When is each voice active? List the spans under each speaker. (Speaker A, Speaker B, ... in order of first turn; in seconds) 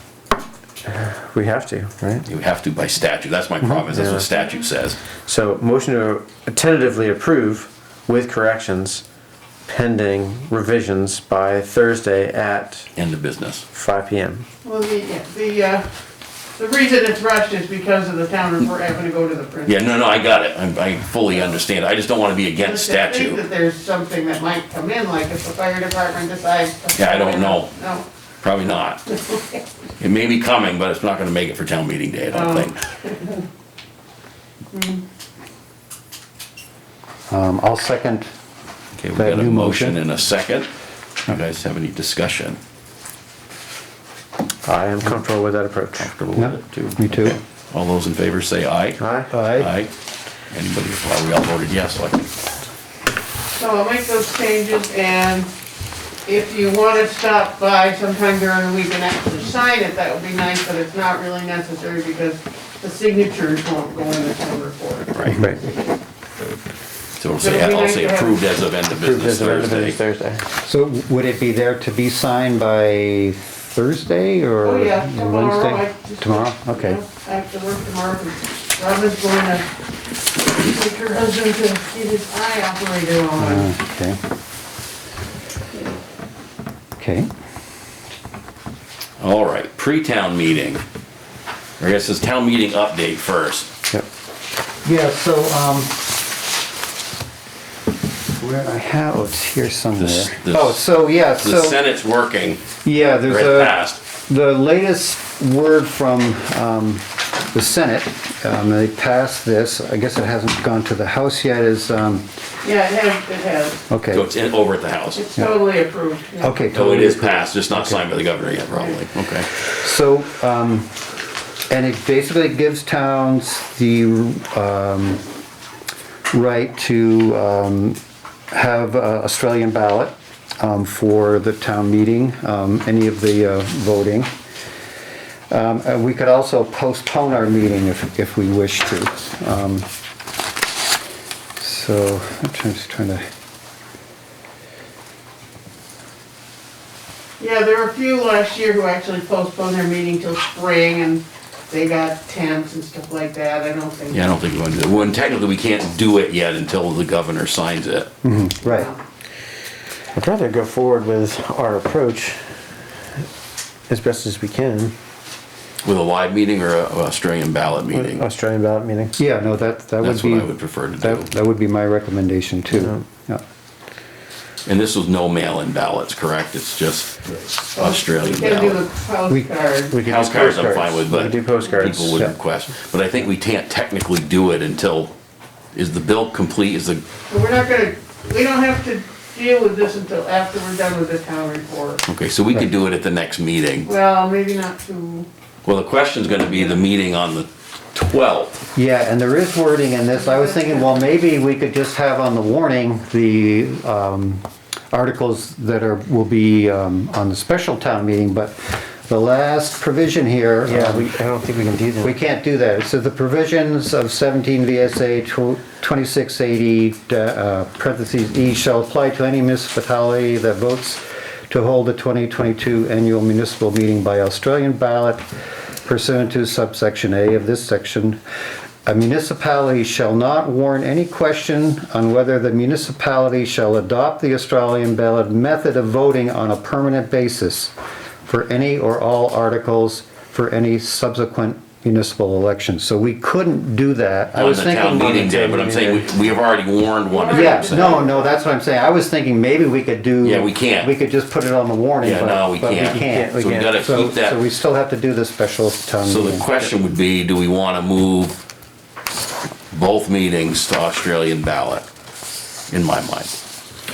Speaker A: 0.9-2.2, 3.9-4.2, 5.2-9.0, 9.7-12.9, 13.7-14.4, 44.6-46.1, 49.0-49.3, 65.3-65.5, 68.9-70.5, 160.1-162.4, 163.9-164.9, 167.9-169.1, 172.7-173.0, 179.9-182.2, 210.6-212.1, 244.9-246.1, 252.9-253.7
Speaker B: 2.2-5.0, 12.9-13.6, 19.7-23.4, 26.9-27.7, 28.4-29.1, 30.0-32.8, 39.0-40.7, 41.2-42.6, 46.0-47.0, 47.7-49.0, 49.5-49.9, 50.5-52.3, 67.2-70.0, 89.2-90.8, 91.8-93.7, 100.0-100.8, 101.4-102.7, 103.2-104.0, 114.1-115.2, 116.7-119.5, 154.1-158.1, 165.8-168.2, 170.0-171.3, 174.7-178.8, 180.0-185.1, 185.7-187.0, 192.1-193.9, 195.6-198.6, 244.3-248.0, 250.2-250.9, 252.0-254.4, 256.0-258.4, 259.7-261.8, 262.7-263.3
Speaker C: 14.6-15.9, 16.6-19.9, 22.6-28.0, 32.3-33.4, 34.7-35.0, 53.5-55.5, 56.2-65.9, 67.4-68.4, 74.6-79.7, 80.4-83.7, 112.6-113.8, 115.1-116.6, 147.4-154.4, 158.6-159.0, 177.7-180.0, 187.3-192.0, 193.8-195.3, 200.1-200.9, 247.1-248.3
Speaker D: 37.3-38.3, 39.1-40.0, 46.4-47.4, 49.3-49.7, 65.3-65.6, 70.6-77.0, 83.4-84.2, 87.0-87.3, 94.8-96.0, 98.4-101.8, 102.8-112.2, 113.9-114.2, 116.4-118.1, 119.8-120.9, 121.7-125.2, 126.3-128.0, 128.5-134.3, 135.5-139.9, 141.6-143.2, 158.2-158.9, 169.2-173.4, 198.7-211.1, 212.0-225.2, 225.8-228.2, 228.8-237.7, 238.2-245.3, 247.3-256.7